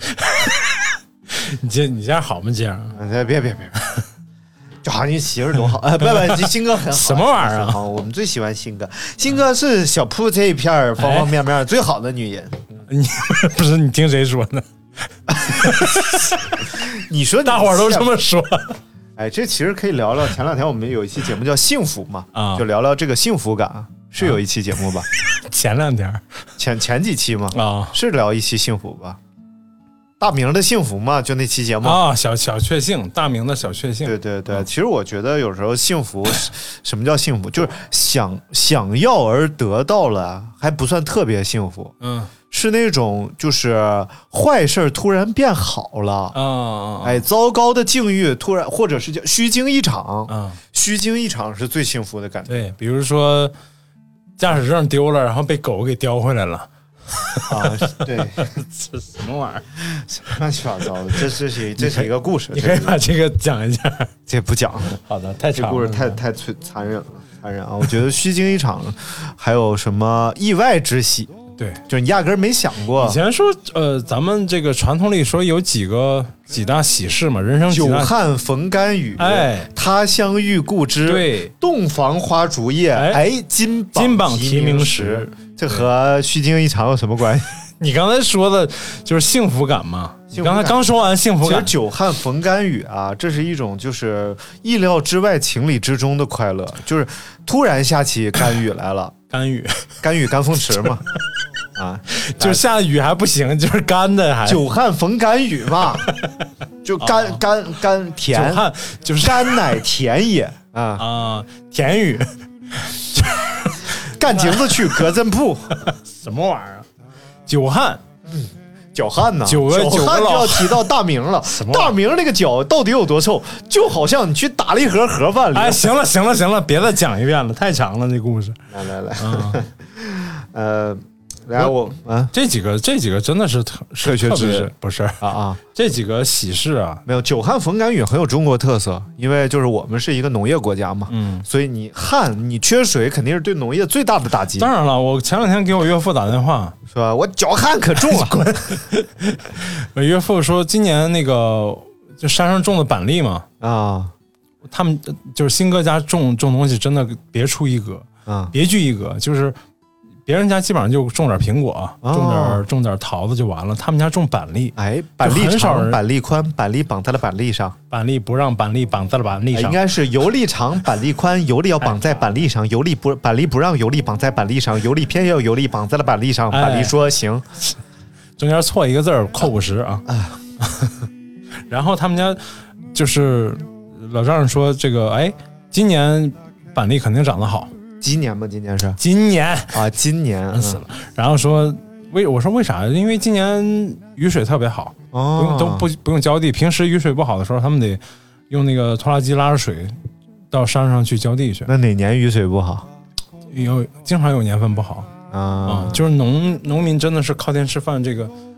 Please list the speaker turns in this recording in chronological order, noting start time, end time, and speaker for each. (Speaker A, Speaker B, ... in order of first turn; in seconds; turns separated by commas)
Speaker A: 0.1-3.0, Speaker B: 2.9-3.7, Speaker B: 4.8-12.7, Speaker A: 6.1-7.8, Speaker A: 11.0-11.3, Speaker A: 12.9-14.7, Speaker B: 15.3-16.1, Speaker A: 15.4-16.4, Speaker B: 16.7-18.1, Speaker A: 17.4-18.8, Speaker B: 19.2-25.1, Speaker A: 22.3-22.6, Speaker A: 25.3-26.2, Speaker B: 26.6-29.2, Speaker A: 27.5-28.0, Speaker B: 30.2-32.0, Speaker A: 31.8-34.6, Speaker B: 34.0-41.9, Speaker A: 42.0-42.3, Speaker B: 42.5-46.4, Speaker A: 46.3-47.2, Speaker B: 47.0-52.5, Speaker A: 50.3-50.6, Speaker A: 52.5-53.5, Speaker A: 54.4-59.6, Speaker B: 57.5-58.5, Speaker B: 59.8-63.0, Speaker A: 61.8-64.1, Speaker B: 64.3-65.0, Speaker A: 65.0-66.2, Speaker B: 65.5-71.3, Speaker B: 71.9-73.2, Speaker A: 73.0-78.1, Speaker B: 77.7-87.5, Speaker A: 79.2-79.7, Speaker A: 81.0-81.5, Speaker A: 82.9-83.2, Speaker A: 83.9-85.8, Speaker A: 87.8-91.7, Speaker B: 90.3-99.1, Speaker A: 99.3-99.8, Speaker B: 100.0-101.0, Speaker B: 101.8-102.6, Speaker A: 102.1-104.6, Speaker B: 104.4-106.1, Speaker B: 106.8-108.7, Speaker A: 107.0-107.4, Speaker A: 108.3-109.6, Speaker B: 109.2-111.0, Speaker A: 111.0-114.9, Speaker B: 114.0-115.8, Speaker A: 115.8-116.9, Speaker A: 117.5-118.0, Speaker B: 118.3-125.8, Speaker A: 119.5-120.8, Speaker A: 121.5-121.9, Speaker A: 125.5-128.6, Speaker B: 128.7-132.3, Speaker A: 129.2-129.6, Speaker A: 132.3-135.2, Speaker B: 134.0-135.6, Speaker A: 135.7-137.0, Speaker B: 137.1-144.7, Speaker A: 141.1-141.4, Speaker A: 144.6-146.8, Speaker B: 146.9-148.8, Speaker A: 148.0-153.4, Speaker B: 153.6-154.1, Speaker A: 154.7-159.6, Speaker B: 158.2-158.5, Speaker A: 160.2-166.0, Speaker B: 162.0-162.6, Speaker B: 164.8-167.8, Speaker A: 167.9-169.8, Speaker B: 169.5-177.4, Speaker A: 171.8-172.2, Speaker A: 176.5-176.9, Speaker A: 178.4-180.0, Speaker B: 180.1-180.4, Speaker A: 180.6-181.1, Speaker A: 181.7-182.4, Speaker A: 182.9-187.7, Speaker B: 188.0-189.0, Speaker A: 189.0-189.8, Speaker B: 189.7-190.8, Speaker A: 190.5-200.0, Speaker B: 195.1-195.9, Speaker A: 200.5-201.7, Speaker B: 201.7-202.9, Speaker A: 203.5-205.1, Speaker B: 205.3-206.0, Speaker A: 205.7-208.3